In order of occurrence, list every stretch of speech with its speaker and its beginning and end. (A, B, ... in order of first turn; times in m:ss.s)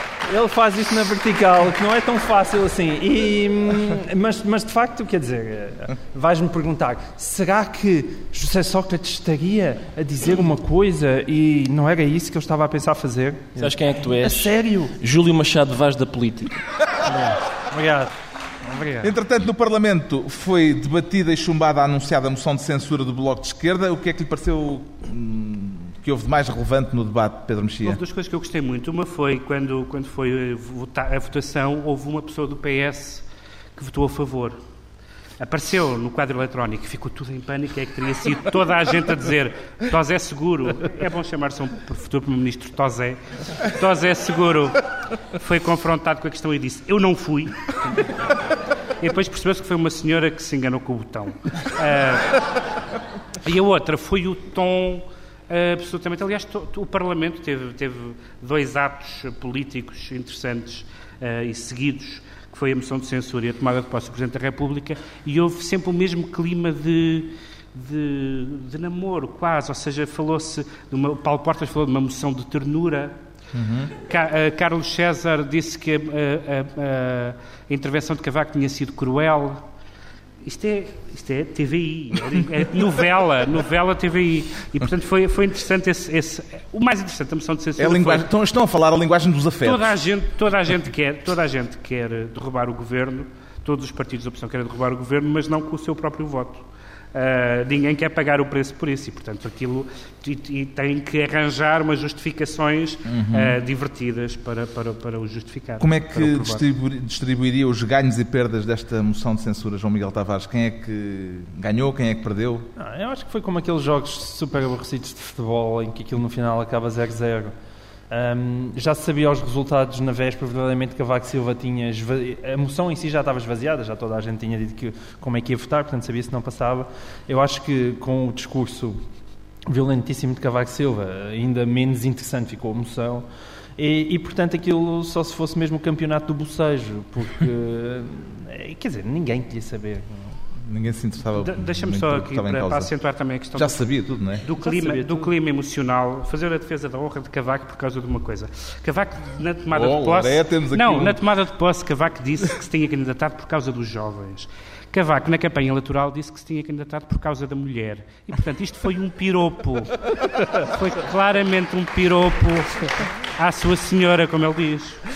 0:00.3-0:15.0 A
0:13.6-0:16.6 B
0:17.1-0:19.1 A
0:19.0-0:28.0 C
0:27.8-0:33.2 D
0:33.8-0:34.6 D
0:35.4-0:48.0 D
0:49.0-0:52.4 D
0:53.4-1:13.2 D
1:13.5-1:13.9 C
1:14.0-1:19.6 D
1:20.4-1:28.3 D
1:27.8-1:29.9 C
1:29.6-1:36.6 D
1:37.1-1:46.6 D
1:43.1-1:43.6 C
1:45.8-1:52.7 C
1:52.8-1:57.5 A
1:58.1-2:09.0 A
2:09.7-2:13.3 A
2:13.8-2:20.3 A
2:20.6-2:22.9 C
2:21.4-2:45.0 D
2:23.6-2:24.4 C
2:24.6-2:25.3 A
2:29.7-2:31.2 C